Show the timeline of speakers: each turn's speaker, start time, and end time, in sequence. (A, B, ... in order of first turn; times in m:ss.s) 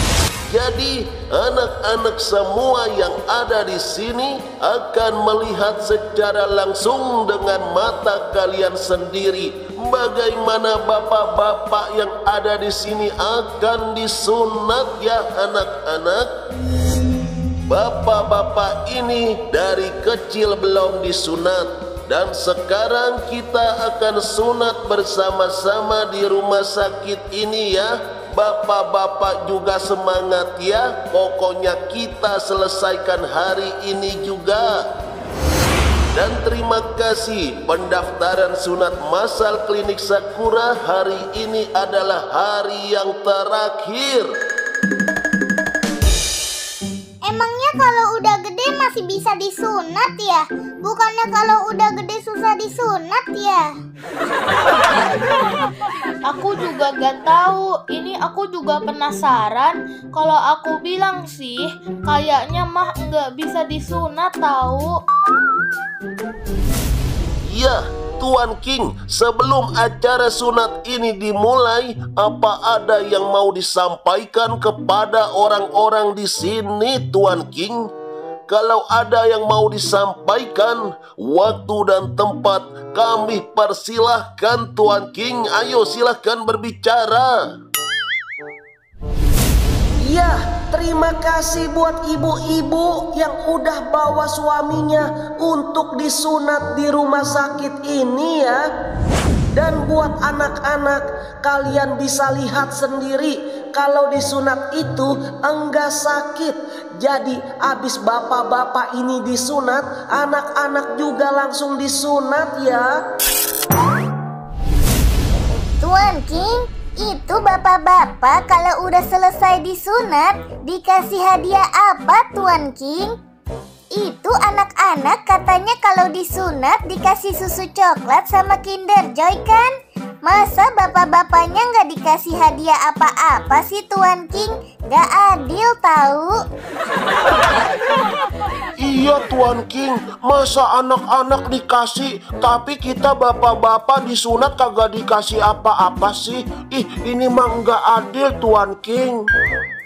0:00.5-0:16.3 A
0:17.7-0:34.8 A
0:36.1-0:44.3 A
0:47.3-0:50.3 B
0:50.8-0:53.6 B
0:56.2-1:04.9 C
1:07.4-1:17.9 A
1:18.5-1:27.4 A
1:30.0-1:38.6 D
1:39.5-1:53.0 D
1:55.8-2:03.1 B
2:03.9-2:09.7 B
2:10.2-2:16.4 B
2:18.8-2:29.2 A